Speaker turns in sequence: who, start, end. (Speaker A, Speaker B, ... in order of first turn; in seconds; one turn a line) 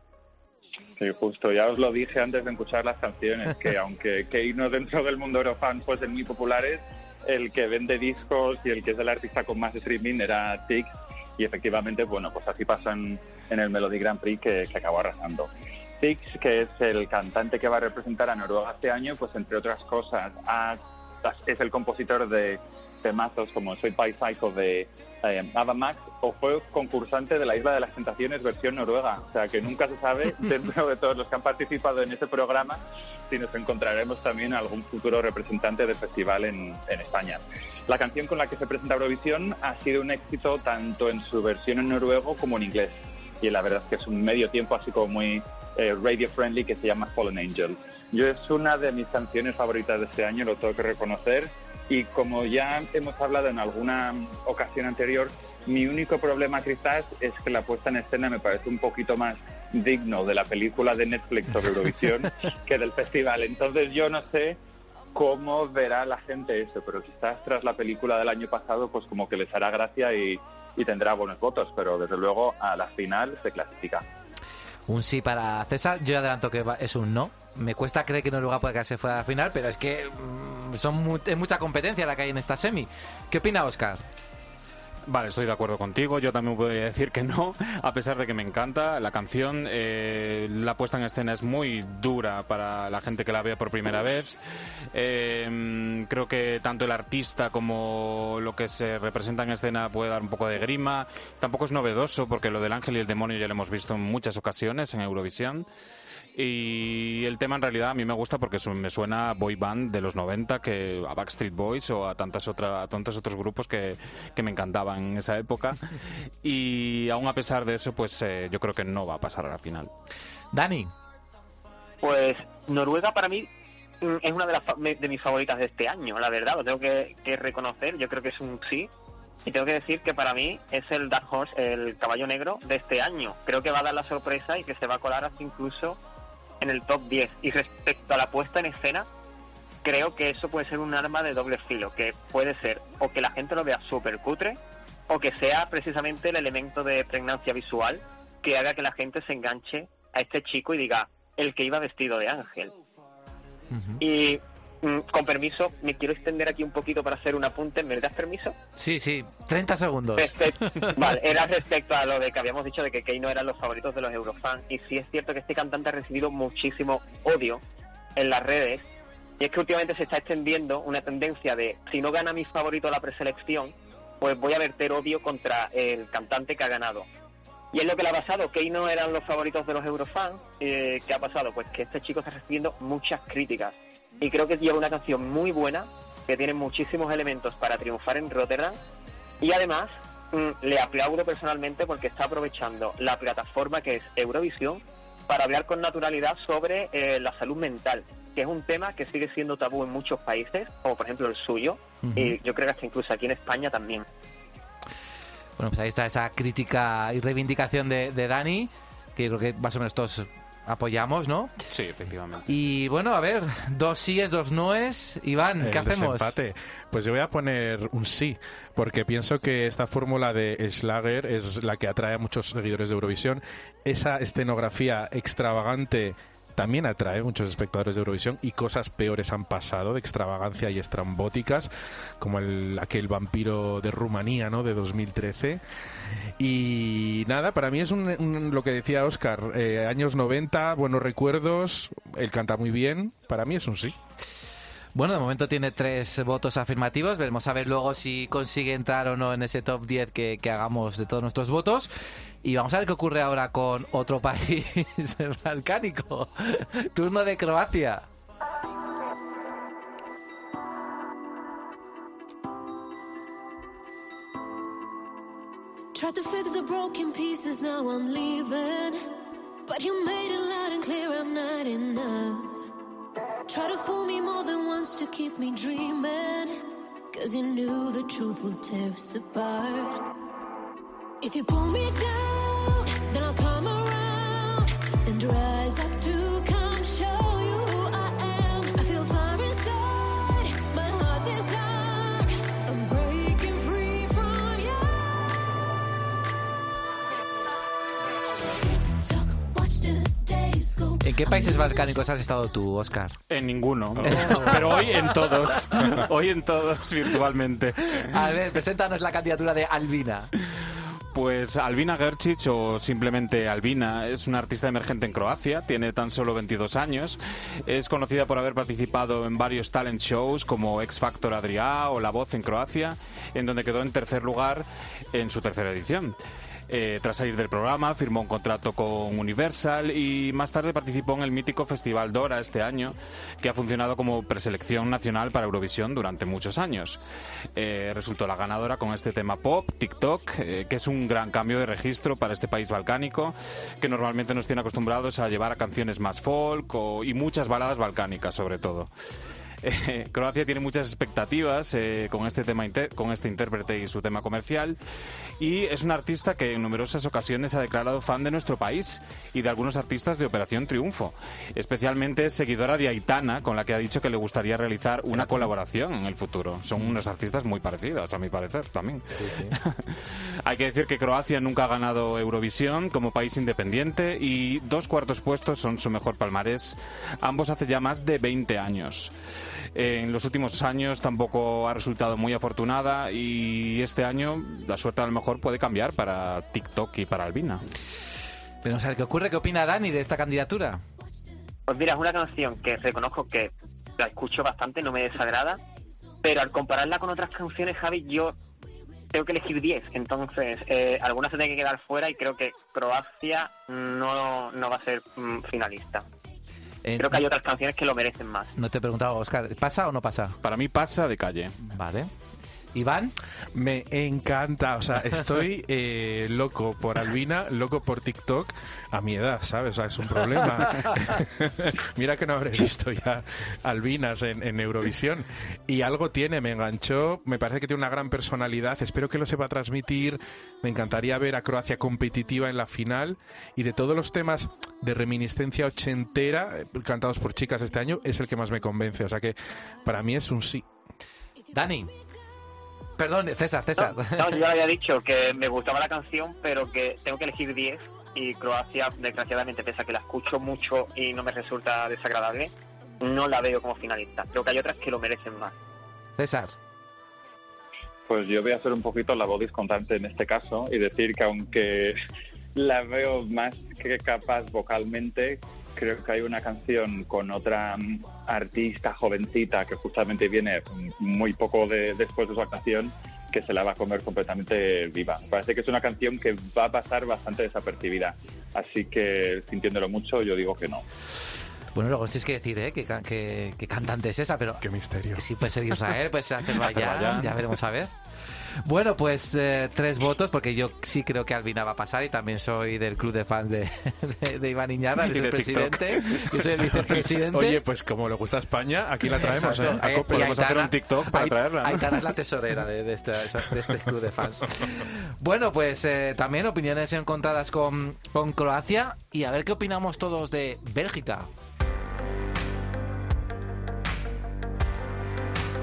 Speaker A: 1.0-64.6
Speaker A: 65.1-74.0
Speaker B: 74.9-84.0
Speaker C: 85.1-94.4
Speaker C: 94.9-105.7
Speaker C: 106.3-119.9
Speaker B: 120.5-120.9
Speaker D: 122.0-123.5
Speaker D: 124.0-128.9
Speaker D: 129.4-136.0
Speaker D: 136.6-139.1
Speaker D: 139.8-152.7
Speaker B: 153.7-154.0
Speaker D: 154.0-158.6
Speaker B: 158.8-161.1
Speaker D: 160.2-167.6
Speaker D: 168.2-168.8
Speaker D: 169.4-177.1
Speaker D: 177.7-188.8
Speaker D: 189.4-204.1
Speaker B: 202.0-202.3
Speaker B: 205.6-211.5
Speaker C: 211.7-212.5
Speaker B: 212.5-216.3
Speaker E: 215.6-235.6
Speaker E: 236.4-243.9
Speaker B: 244.9-251.9
Speaker B: 252.4-258.1
Speaker F: 265.9-269.1
Speaker F: 269.6-272.6
Speaker F: 273.5-280.0
Speaker F: 281.2-295.4
Speaker F: 299.7-300.8
Speaker B: 301.0-303.2
Speaker C: 303.3-308.3
Speaker E: 303.9-304.5
Speaker B: 304.0-306.0
Speaker B: 308.0-310.3
Speaker C: 310.6-326.2
Speaker C: 326.7-337.0
Speaker C: 337.6-348.9
Speaker C: 349.6-354.8
Speaker C: 355.4-379.1
Speaker B: 365.1-365.4
Speaker B: 369.1-369.5
Speaker C: 379.7-387.6
Speaker B: 388.6-390.8
Speaker D: 391.7-395.6
Speaker D: 396.2-398.4
Speaker D: 399.1-406.0
Speaker B: 406.8-407.2
Speaker D: 407.0-408.5
Speaker B: 408.6-410.4
Speaker C: 410.4-411.6
Speaker B: 411.7-412.1
Speaker B: 412.7-413.1
Speaker E: 413.5-440.6
Speaker B: 441.5-441.9
Speaker B: 443.0-444.4
Speaker D: 443.8-455.6
Speaker B: 456.2-456.5
Speaker A: 458.1-462.0
Speaker A: 462.5-480.8
Speaker B: 481.7-484.6
Speaker E: 484.6-485.2
Speaker B: 485.2-487.9
Speaker C: 486.6-487.4
Speaker B: 488.6-497.6
Speaker C: 495.0-496.2
Speaker E: 496.7-500.3
Speaker B: 499.2-511.3
Speaker C: 499.9-502.0